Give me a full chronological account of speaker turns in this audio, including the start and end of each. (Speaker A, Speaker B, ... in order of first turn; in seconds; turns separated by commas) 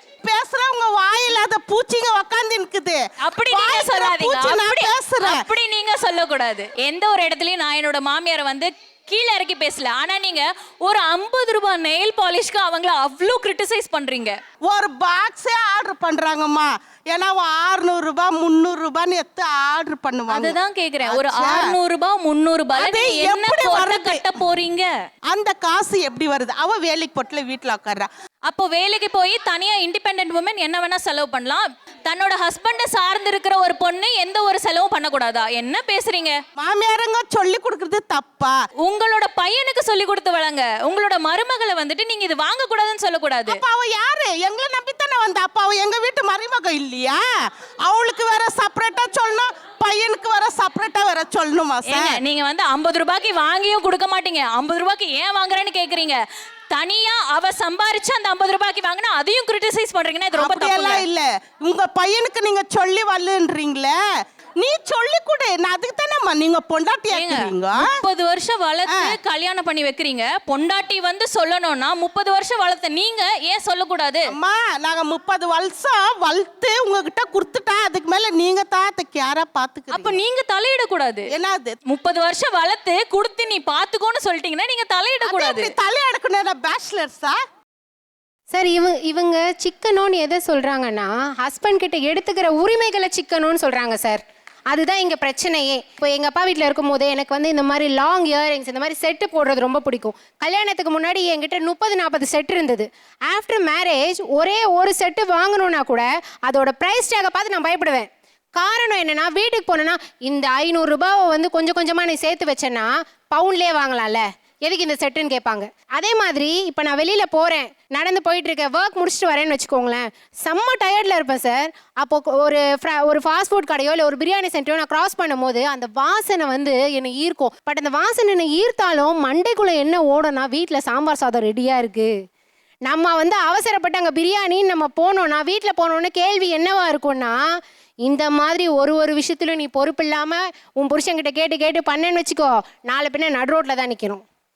Speaker A: 0.2-5.4, Speaker B: 3.2-14.3, Speaker A: 14.7-21.8, Speaker B: 20.3-24.9, Speaker A: 22.8-24.3, Speaker A: 25.3-28.1, Speaker B: 28.5-36.4, Speaker A: 36.6-38.5, Speaker B: 38.8-43.6, Speaker A: 43.5-47.2, Speaker A: 47.8-52.2, Speaker B: 51.9-56.2, Speaker B: 56.7-61.0, Speaker A: 60.3-64.0, Speaker A: 64.6-68.0, Speaker B: 67.1-74.3, Speaker A: 74.3-80.2, Speaker B: 79.9-81.3, Speaker A: 81.3-81.8, Speaker B: 81.9-85.7, Speaker A: 85.2-87.4, Speaker C: 88.5-132.1, Speaker C: 132.9-137.4, Speaker C: 138.0-144.2